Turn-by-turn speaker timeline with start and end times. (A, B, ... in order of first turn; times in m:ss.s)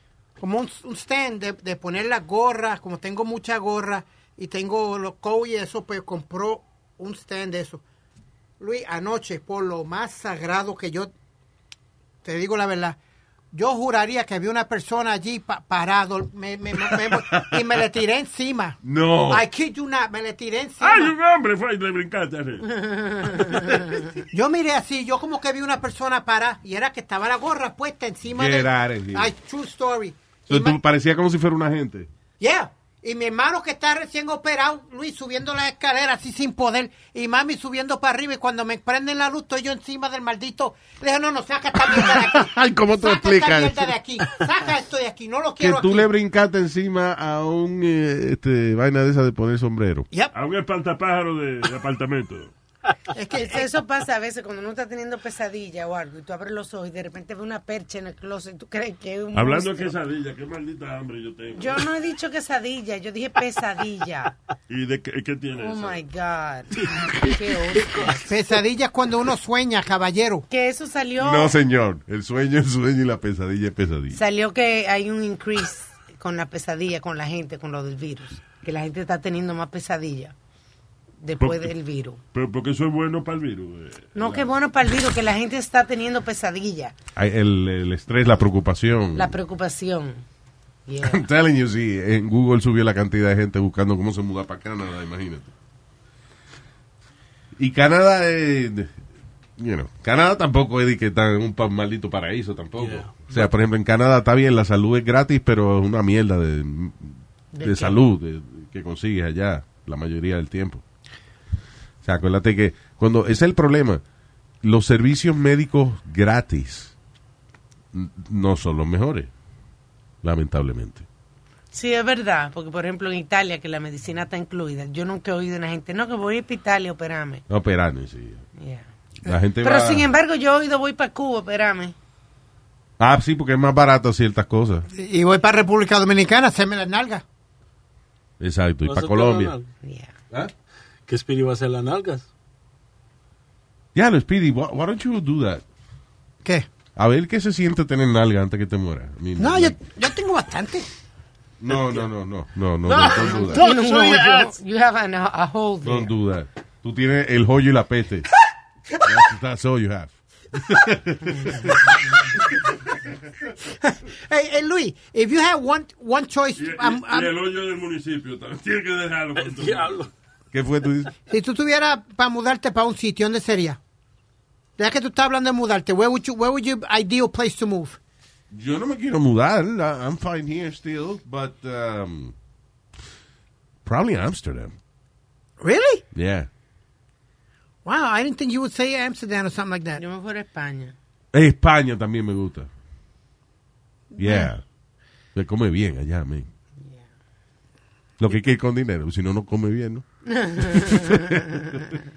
0:00.4-0:07.8 A
0:08.6-0:11.1 A
0:12.2-0:13.0 A
0:13.5-0:18.8 A
0:17.1-0:17.6 B
0:18.8-0:19.4 B
0:19.3-0:21.1 A
0:20.8-0:23.7 C
0:22.9-0:24.0 D
0:24.3-0:30.8 A
0:28.3-0:29.3 B
0:30.5-0:32.1 B
0:32.4-0:46.1 A
0:41.9-0:43.9 B
0:45.6-0:50.1 B
0:50.3-0:52.5 C
0:53.1-0:53.7 A
0:53.3-0:59.9 D
0:59.3-1:01.9 C
1:01.5-1:04.3 D
1:04.7-1:06.0 C
1:05.6-1:08.2 D
1:08.2-1:10.4 A
1:10.5-1:11.5 D
1:11.2-1:14.2 B
1:14.1-1:20.3 D
1:21.2-1:22.2 D
1:21.4-1:21.7 C
1:22.3-1:24.5 C
1:24.1-1:26.9 D
1:27.2-1:29.4 B
1:29.1-1:30.2 D
1:30.9-1:31.2 D
1:31.0-1:35.5 B
1:37.6-1:38.9 B
1:39.6-1:50.8 B
1:42.8-1:43.5 E
1:47.5-1:48.0 D
1:52.0-1:54.0 B
1:54.6-1:56.9 B
1:57.9-1:59.3 B
2:00.2-2:01.0 B
2:01.7-2:07.4 D
2:07.5-2:08.4 B
2:08.6-2:08.9 D
2:09.2-2:10.1 B
2:09.6-2:11.9 D
2:13.0-2:14.8 B
2:14.9-2:17.2 A
2:18.4-2:19.5 B
2:18.8-2:19.7 E
2:19.8-2:20.1 D
2:21.1-2:22.3 E
2:23.9-2:25.6 B
2:27.0-2:29.8 B
2:29.4-2:30.8 A
2:31.6-2:33.6 B
2:32.9-2:34.4 A
2:33.3-2:36.1 D
2:35.8-2:38.3 B
2:39.0-2:41.7 B
2:43.8-2:47.3 A
2:46.6-2:50.0 C
2:49.4-2:50.1 E
2:50.5-2:51.1 B
2:51.3-2:53.8 A
2:54.8-2:58.0 A
2:58.5-3:02.3 B
3:03.8-3:04.7 B
3:05.6-3:06.0 A
3:06.1-3:06.5 B
3:07.8-3:10.0 A
3:10.0-3:10.9 D
3:11.3-3:12.7 B
3:14.2-3:14.6 B
3:14.2-3:14.5 A
3:15.3-3:16.5 B
3:16.8-3:17.0 D
3:18.2-3:20.0 B
3:20.2-3:22.0 D
3:20.6-3:21.4 B